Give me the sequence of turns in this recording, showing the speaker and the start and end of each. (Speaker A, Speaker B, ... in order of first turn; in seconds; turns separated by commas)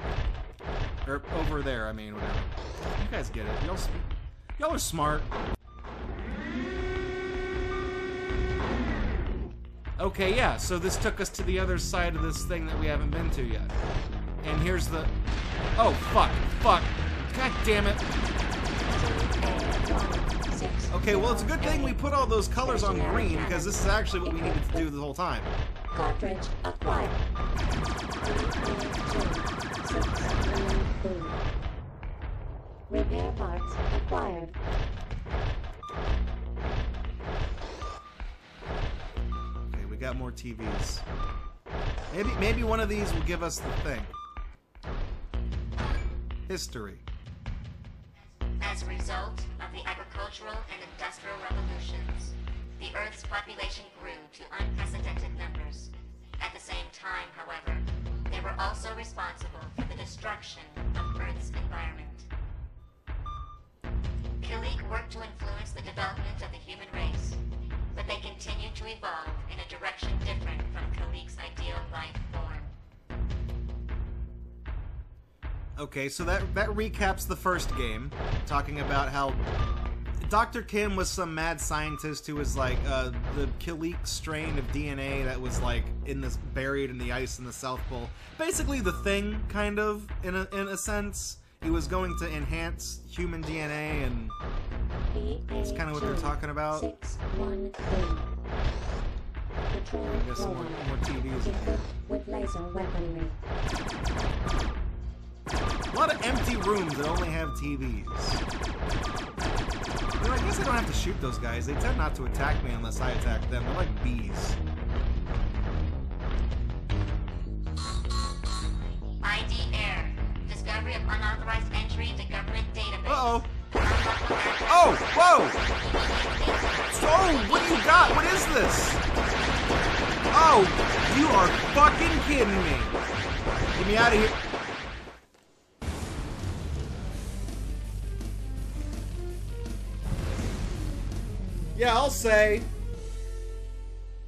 Speaker A: 1.0-5.3, Speaker A: 10.0-13.7, Speaker A: 14.4-15.1, Speaker A: 15.8-18.1, Speaker B: 18.9-22.0, Speaker A: 20.9-25.5, Speaker B: 22.6-24.9, Speaker B: 25.9-27.2, Speaker B: 28.2-31.4, Speaker B: 32.9-34.5, Speaker A: 39.6-41.0, Speaker A: 42.1-44.1, Speaker A: 46.5-47.0, Speaker C: 48.6-62.3, Speaker C: 64.4-72.7, Speaker A: 75.8-79.5, Speaker A: 80.2-94.3, Speaker B: 95.1-98.3, Speaker A: 95.5-96.9, Speaker B: 99.7-103.4, Speaker A: 100.1-101.8, Speaker A: 105.9-108.4, Speaker A: 110.2-114.6, Speaker C: 119.2-128.5, Speaker A: 123.0-123.5, Speaker A: 124.7-125.6, Speaker A: 126.9-129.0, Speaker A: 130.3-133.0, Speaker A: 133.7-134.4, Speaker A: 141.8-142.7